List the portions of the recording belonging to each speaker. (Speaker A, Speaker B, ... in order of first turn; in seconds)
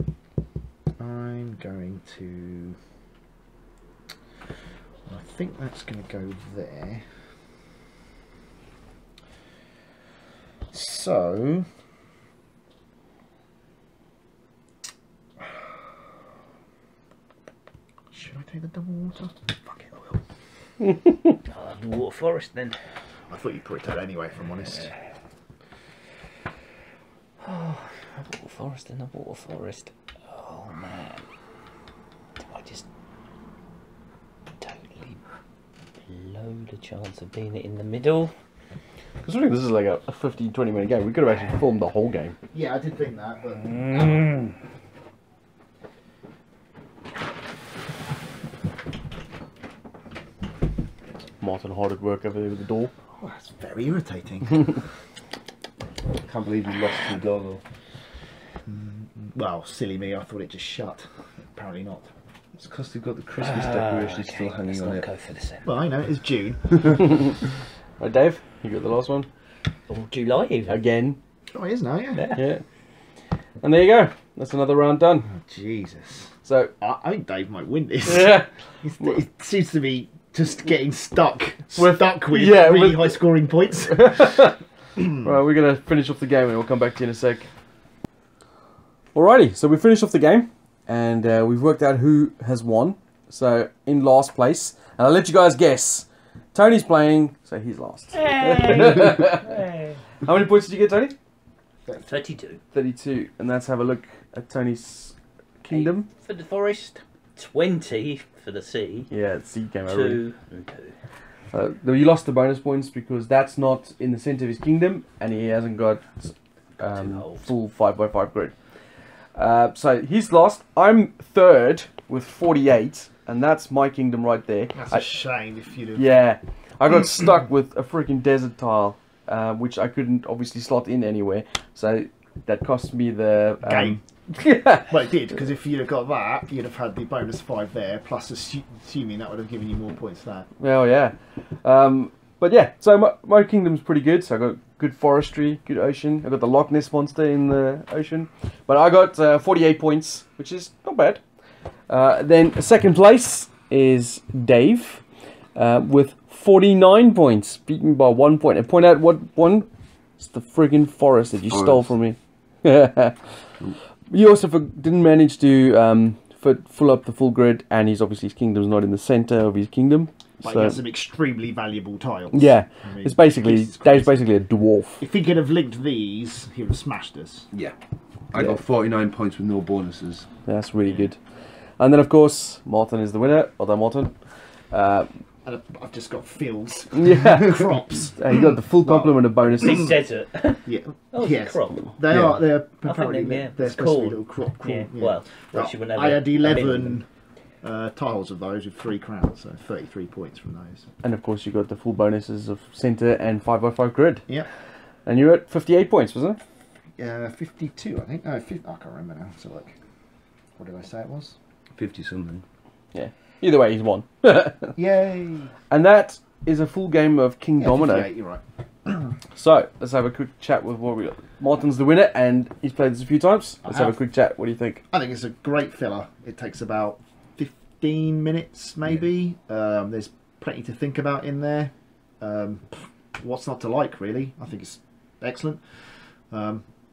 Speaker A: 1.0-2.8, 5.1-7.0, 10.7-11.7, 18.1-20.2, 23.3-24.9, 42.5-44.3, 53.2-54.9, 58.7-62.1, 65.6-67.0, 71.5-72.3, 75.2-84.5, 101.9-102.2, 124.7-126.1, 133.6-134.0, 134.8-140.5, 170.4-174.3, 175.0-177.5, 185.4-189.7, 190.7-197.1, 197.6-200.9, 207.0-209.8, 210.6-211.4, 214.8-215.6, 217.6-219.1, 223.6-224.0, 224.9-236.7
Speaker B: 20.8-21.3, 39.2-42.4, 51.4-52.9, 67.0-67.4, 68.0-69.3, 70.7-71.2, 72.3-72.6, 73.6-75.3, 76.4-76.7, 78.0-78.5, 81.7-83.3, 83.9-87.5, 89.1-99.6, 100.2-101.2, 102.7-106.1, 109.1-110.2, 111.5-118.5, 119.3-125.1, 126.0-135.0, 140.6-151.2, 151.9-155.0, 155.6-159.7, 160.2-163.5, 164.1-170.8, 172.3-175.0, 180.5-181.2, 181.8-185.1, 187.0-190.0, 201.0-204.3, 205.1-206.4, 212.9-214.8, 215.7-218.1, 219.4-224.8
Speaker C: 21.5-22.8, 27.4-31.3, 32.4-32.9, 34.6-35.2, 36.0-38.3, 63.4-65.7, 69.9-70.8, 72.2-72.5, 98.1-100.0, 102.0-102.6, 105.7-109.1, 109.9-111.0, 116.8-117.5, 189.6-191.9, 192.8-197.0
Speaker D: 56.2-57.6, 62.6-65.1, 161.5-161.9, 178.3-180.3, 211.7-212.4